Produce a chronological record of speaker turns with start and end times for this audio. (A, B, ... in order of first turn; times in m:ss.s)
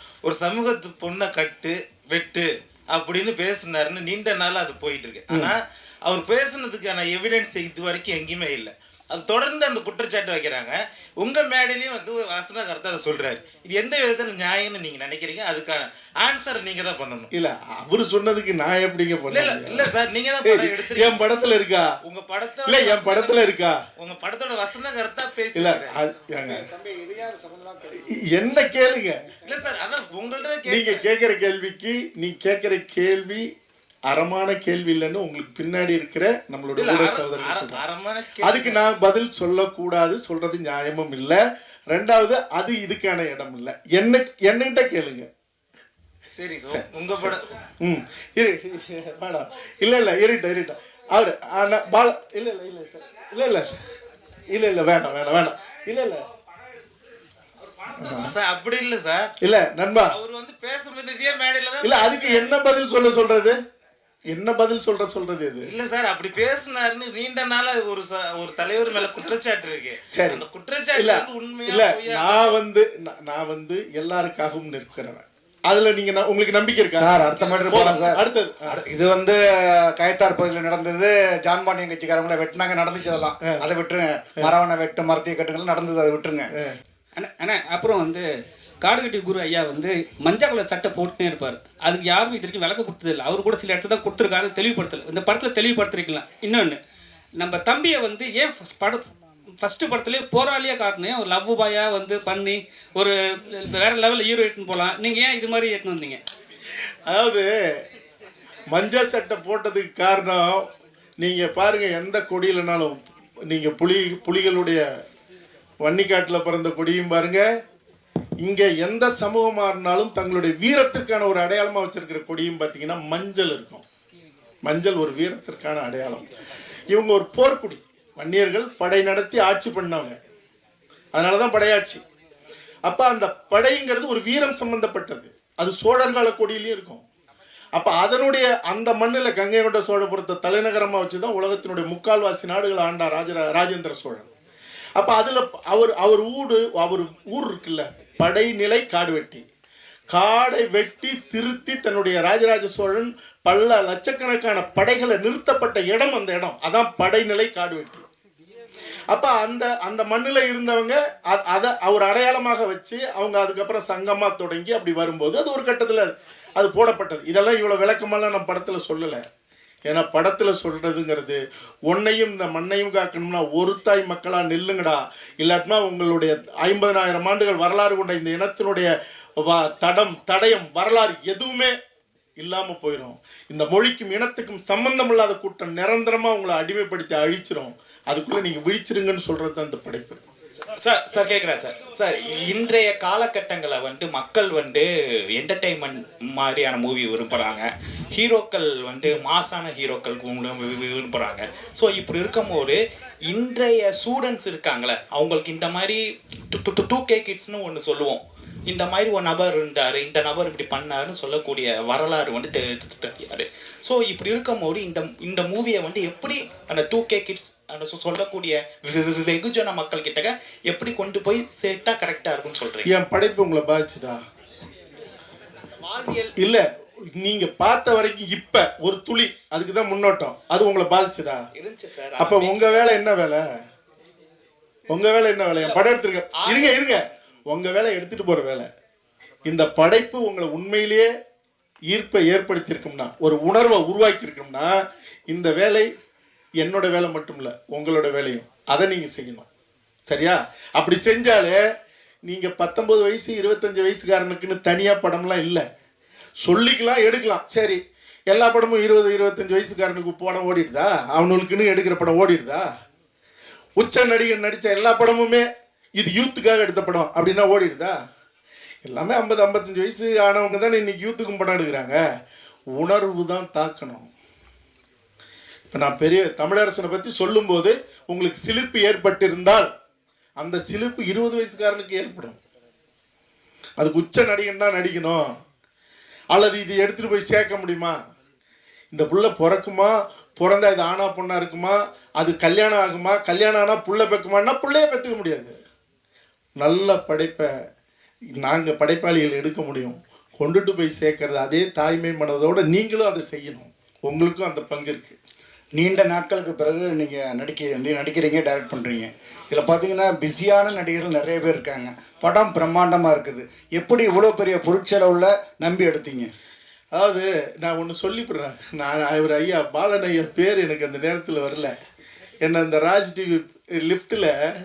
0:00.2-0:05.5 A
0:06.0-0:17.3 A
0:17.3-0:19.9 B
0:19.3-0:21.2 A
0:20.4-0:21.9 B
0:22.0-0:26.0 A
0:22.7-0:23.8 B
0:25.6-0:26.7 B
0:26.4-0:28.0 C
0:28.1-0:29.2 B
0:29.4-0:31.0 A
0:30.7-0:33.4 B
0:34.1-0:37.8 B
0:36.8-0:38.8 A
0:38.4-0:41.4 B
0:41.9-0:45.3 B
0:46.4-0:47.4 A
0:46.7-0:53.7 B
0:54.5-0:56.2 B
0:58.0-0:58.3 B
0:58.0-0:59.3 A
0:59.4-1:00.1 B
1:00.1-1:02.6 A
1:01.8-1:03.6 B
1:04.3-1:05.7 B
1:05.6-1:12.6 A
1:10.1-1:10.4 B
1:11.0-1:18.8 B
1:16.9-1:26.5 C
1:27.2-1:28.2 D
1:28.8-1:36.8 D
1:37.4-1:39.1 D
1:39.6-1:46.2 D
1:47.1-1:47.5 B
1:48.7-1:50.7 B
1:51.2-1:54.8 B
1:55.8-1:57.4 B
1:58.4-2:03.8 B
2:04.6-2:06.3 B
2:06.9-2:10.1 B
2:11.1-2:12.0 B
2:12.9-2:17.0 B
2:17.8-2:24.3 B
2:25.0-2:29.4 B
2:30.1-2:38.1 B
2:39.1-2:49.2 B
2:49.9-3:01.7 B
3:02.4-3:10.2 B
3:10.8-3:42.8 E
3:11.6-3:12.1 A
3:42.8-3:44.2 B
3:46.4-3:46.6 B
3:47.2-3:51.4 B
3:51.6-3:52.1 E
3:52.1-3:52.8 A
3:52.2-3:53.4 B
3:54.9-3:58.7 B
3:59.4-4:01.1 B
4:01.9-4:04.7 B
4:05.3-4:05.9 B
4:06.6-4:09.5 B
4:10.1-4:11.6 B
4:12.3-4:15.6 B
4:16.4-4:17.8 B
4:18.3-4:22.6 B
4:23.8-4:25.4 B
4:26.0-4:27.9 B
4:28.8-4:32.0 B
4:32.8-4:34.1 B
4:35.7-4:39.7 B
4:40.4-4:42.4 B
4:43.8-4:45.3 B
4:46.3-4:47.9 B
4:48.9-4:55.5 B
4:56.6-4:57.5 B
4:58.4-5:05.2 B
5:05.7-5:16.3 C
5:16.9-5:21.7 B
5:22.4-5:24.3 B